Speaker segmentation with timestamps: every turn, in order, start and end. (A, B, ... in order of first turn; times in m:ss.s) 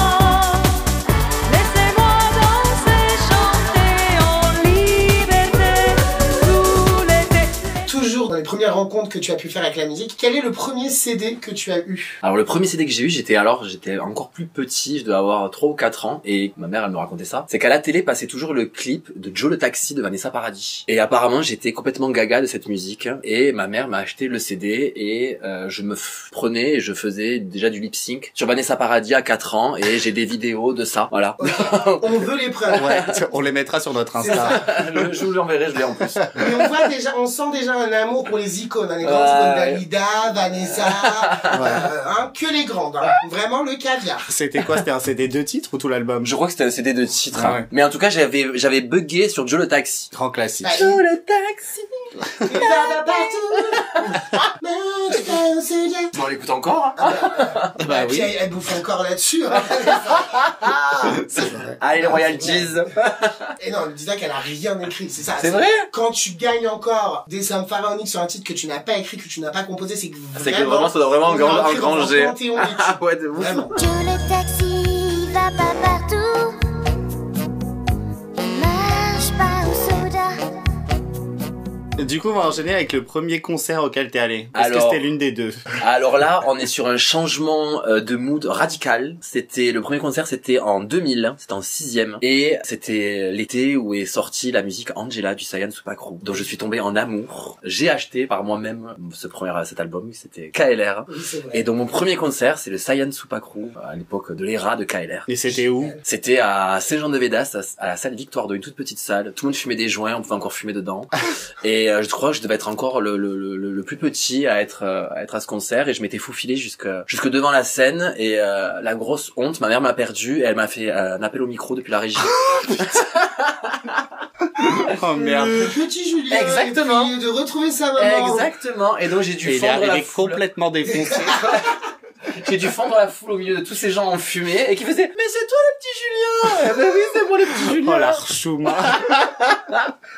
0:01.5-0:03.7 A
0:01.5-0:03.1 B
0:03.6-0:07.5 B
0:04.4-0:07.2 A
0:07.9-0:12.2 C
0:12.2-0:32.2 D
0:31.4-0:33.0 C
0:32.7-0:33.2 D
0:32.8-0:35.1 E
0:34.2-0:34.8 C
0:34.3-0:36.3 D
0:36.2-0:36.5 E
0:36.3-0:44.3 C
0:39.0-0:39.8 D
0:40.5-0:41.8 D
0:41.5-0:41.8 E
0:44.3-0:46.3 E
0:46.2-0:50.1 D
0:47.3-0:47.7 E
0:50.1-0:50.7 E
0:50.6-0:51.0 C
0:50.7-0:54.4 D
0:52.4-0:56.1 C
0:56.1-0:57.7 D
0:57.0-1:00.5 C
0:57.8-0:58.4 E
0:59.7-1:03.5 D
1:01.3-1:02.8 C
1:03.6-1:13.7 C
1:05.4-1:05.9 D
1:10.4-1:13.7 D
1:13.8-1:16.6 A
1:18.4-1:20.4 A
1:22.0-1:25.6 E
1:24.5-1:25.0 D
1:25.8-1:45.3 D
1:41.1-1:41.6 C
1:45.3-1:45.9 E
1:45.5-1:46.0 C
1:46.0-2:04.0 D
2:04.6-2:05.8 E
2:05.2-2:08.5 C
2:06.3-2:07.1 D
2:08.0-2:10.4 D
2:09.4-2:11.6 E
2:11.5-2:11.8 D
2:12.3-2:18.2 D
2:17.7-2:19.2 E
2:18.8-2:19.9 D